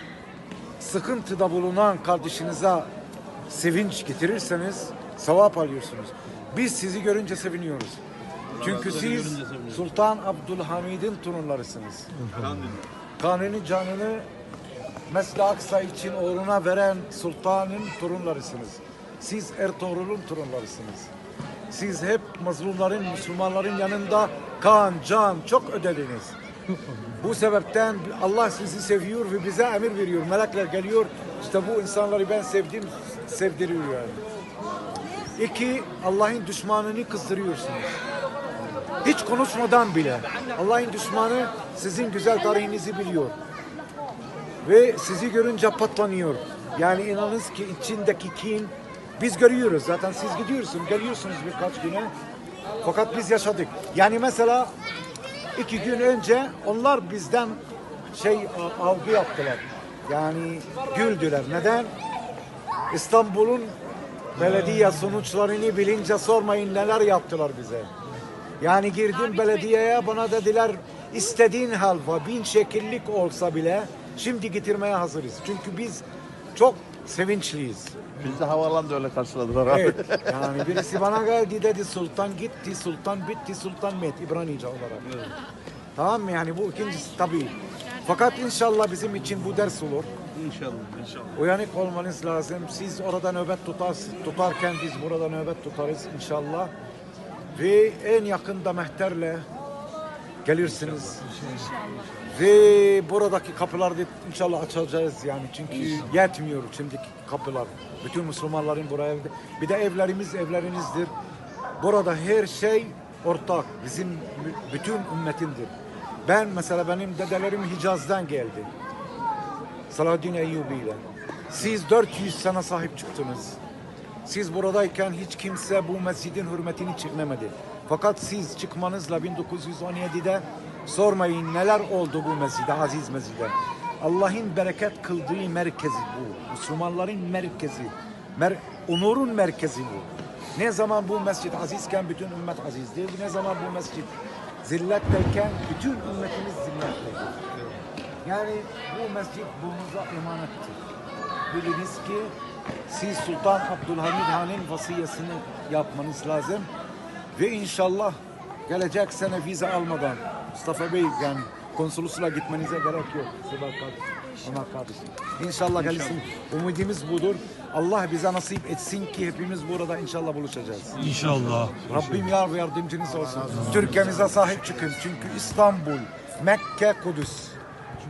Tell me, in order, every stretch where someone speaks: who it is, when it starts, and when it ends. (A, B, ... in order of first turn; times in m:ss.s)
0:00.8-0:02.9 A
0:03.5-0:08.0 A
0:08.6-0:12.3 A
0:08.6-0:09.6 B
0:12.4-0:12.8 B
0:13.2-0:14.2 A
0:15.1-0:21.1 A
0:21.7-0:26.4 A
0:27.2-0:34.2 A
0:35.4-0:38.0 A
0:39.0-0:43.4 A
0:44.6-0:52.1 A
0:52.8-0:54.7 A
0:55.6-0:57.6 A
0:58.1-1:01.9 A
1:02.9-1:03.7 A
1:04.4-1:07.9 A
1:08.6-1:17.9 A
1:18.2-1:20.3 C
1:19.7-1:25.2 A
1:26.0-1:30.1 A
1:30.4-1:31.3 B
1:31.3-1:36.7 A
1:37.5-1:39.4 A
1:40.4-1:41.2 A
1:42.3-1:51.1 A
1:51.8-1:55.7 A
1:56.2-1:58.7 A
1:59.9-2:03.6 A
2:04.2-2:27.4 A
2:28.2-2:30.8 A
2:31.5-2:32.3 A
2:32.9-2:36.7 A
2:37.3-2:57.6 A
2:51.0-2:51.7 B